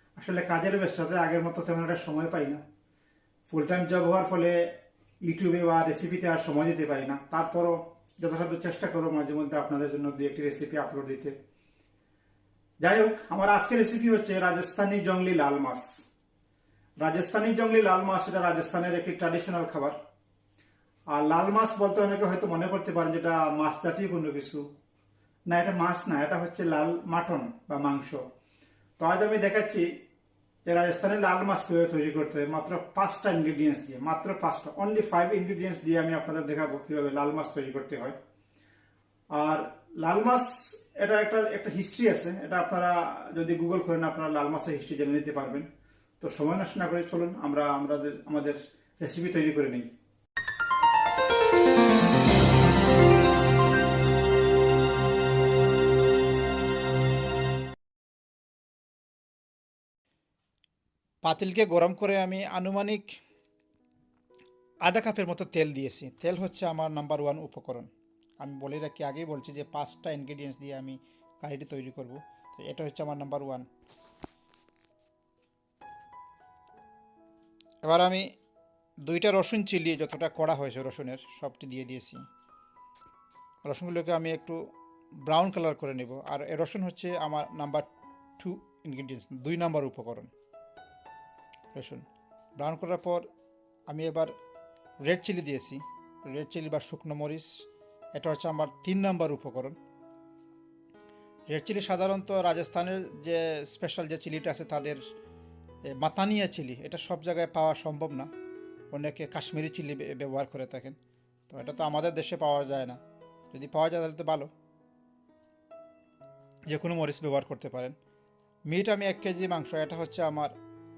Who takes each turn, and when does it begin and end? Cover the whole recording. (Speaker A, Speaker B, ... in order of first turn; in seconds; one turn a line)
Speaker A: 0.1-2.6
Speaker A: 3.5-4.7
Speaker A: 5.2-11.3
Speaker A: 12.8-16.0
Speaker A: 17.0-20.0
Speaker A: 21.1-24.6
Speaker A: 25.5-28.2
Speaker A: 29.0-29.9
Speaker A: 30.6-38.2
Speaker A: 39.3-45.7
Speaker A: 46.2-49.9
Speaker A: 61.2-63.1
Speaker A: 64.8-73.7
Speaker A: 77.8-78.3
Speaker A: 79.0-82.2
Speaker A: 83.6-84.6
Speaker A: 85.2-87.9
Speaker A: 88.4-90.3
Speaker A: 91.7-92.0
Speaker A: 92.6-93.2
Speaker A: 93.9-94.3
Speaker A: 95.0-97.5
Speaker A: 98.1-99.8
Speaker A: 101.5-105.0
Speaker A: 105.8-108.3
Speaker A: 108.9-111.0
Speaker A: 111.5-113.0
Speaker A: 113.5-114.5
Speaker A: 116.7-118.0
Speaker A: 118.7-120.5